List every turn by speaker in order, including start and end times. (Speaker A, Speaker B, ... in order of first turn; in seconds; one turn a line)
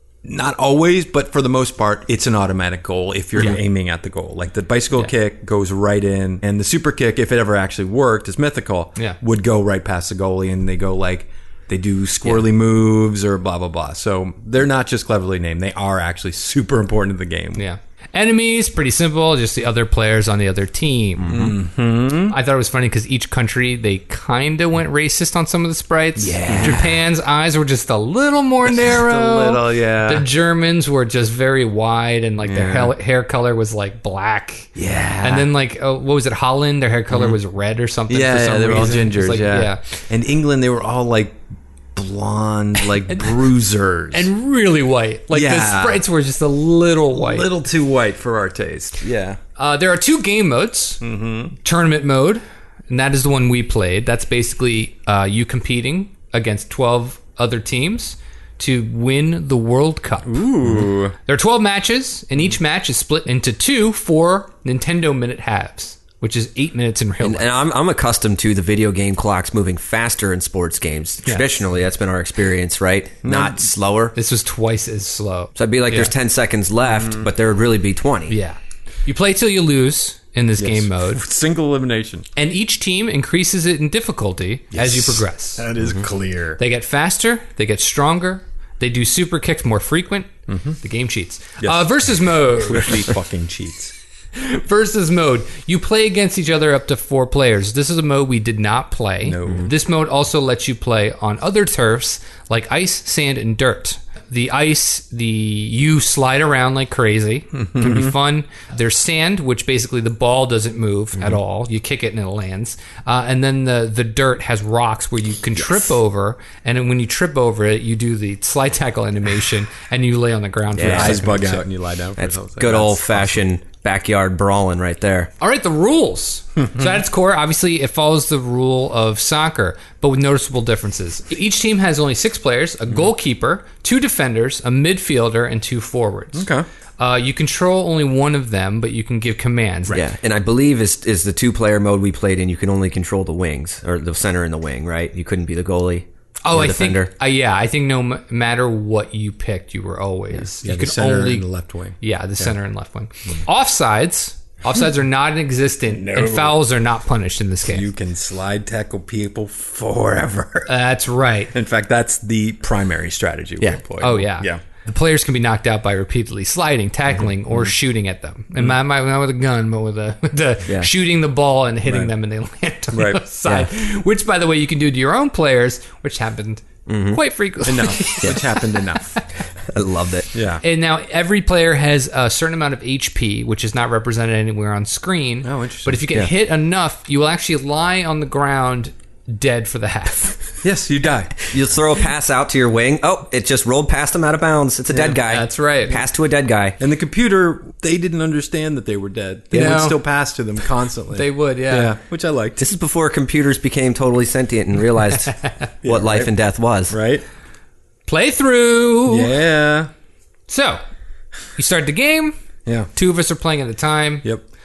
Speaker A: 0.2-17.6
Speaker B: 17.6-21.4
Speaker C: 21.2-21.6
Speaker A: 21.3-22.4
Speaker B: 22.3-34.7
Speaker A: 26.2-27.0
Speaker C: 26.5-26.8
Speaker A: 28.6-30.3
Speaker A: 32.4-32.9
Speaker A: 34.8-35.5
Speaker B: 35.2-39.8
Speaker A: 37.1-37.4
Speaker A: 38.1-41.4
Speaker A: 42.0-44.3
Speaker B: 42.8-43.5
Speaker B: 44.1-47.5
Speaker A: 45.3-46.0
Speaker A: 47.1-49.4
Speaker B: 49.6-51.0
Speaker A: 51.0-51.6
Speaker B: 51.6-60.5
Speaker A: 60.2-61.1
Speaker B: 61.3-67.5
Speaker C: 67.2-74.2
Speaker A: 73.2-73.7
Speaker B: 74.2-76.1
Speaker C: 75.6-78.4
Speaker A: 76.8-77.3
Speaker B: 78.3-81.2
Speaker A: 80.6-82.3
Speaker B: 82.4-85.6
Speaker A: 84.7-86.6
Speaker B: 86.6-90.3
Speaker A: 90.5-90.8
Speaker B: 90.8-93.1
Speaker A: 91.6-91.9
Speaker A: 92.5-93.9
Speaker B: 94.3-121.6
Speaker A: 99.2-99.7
Speaker A: 107.5-108.1
Speaker C: 120.8-121.2
Speaker A: 120.8-123.4
Speaker C: 122.2-125.3
Speaker B: 125.4-136.5
Speaker A: 126.6-127.0
Speaker A: 136.3-136.7
Speaker B: 137.0-140.1
Speaker C: 139.9-147.1
Speaker B: 146.4-151.5
Speaker A: 150.6-152.5
Speaker B: 152.0-157.9
Speaker A: 155.9-156.6
Speaker A: 157.6-160.7
Speaker B: 160.7-161.5
Speaker A: 161.5-164.6
Speaker B: 164.0-179.2
Speaker A: 171.9-172.1
Speaker A: 172.9-173.2
Speaker C: 176.9-177.2
Speaker A: 177.7-179.2
Speaker C: 179.7-180.3
Speaker A: 180.3-180.6
Speaker B: 180.6-190.4
Speaker A: 185.4-186.0
Speaker A: 190.6-191.5
Speaker C: 191.5-196.8
Speaker A: 194.9-195.2
Speaker B: 195.3-196.0
Speaker A: 196.8-202.6
Speaker B: 199.5-200.0
Speaker B: 201.2-201.9
Speaker C: 202.6-205.3
Speaker A: 205.8-206.3
Speaker C: 205.8-206.9
Speaker A: 206.9-207.2
Speaker B: 208.1-209.4
Speaker A: 209.1-209.9
Speaker B: 210.5-210.8
Speaker B: 211.6-212.3
Speaker B: 212.9-214.2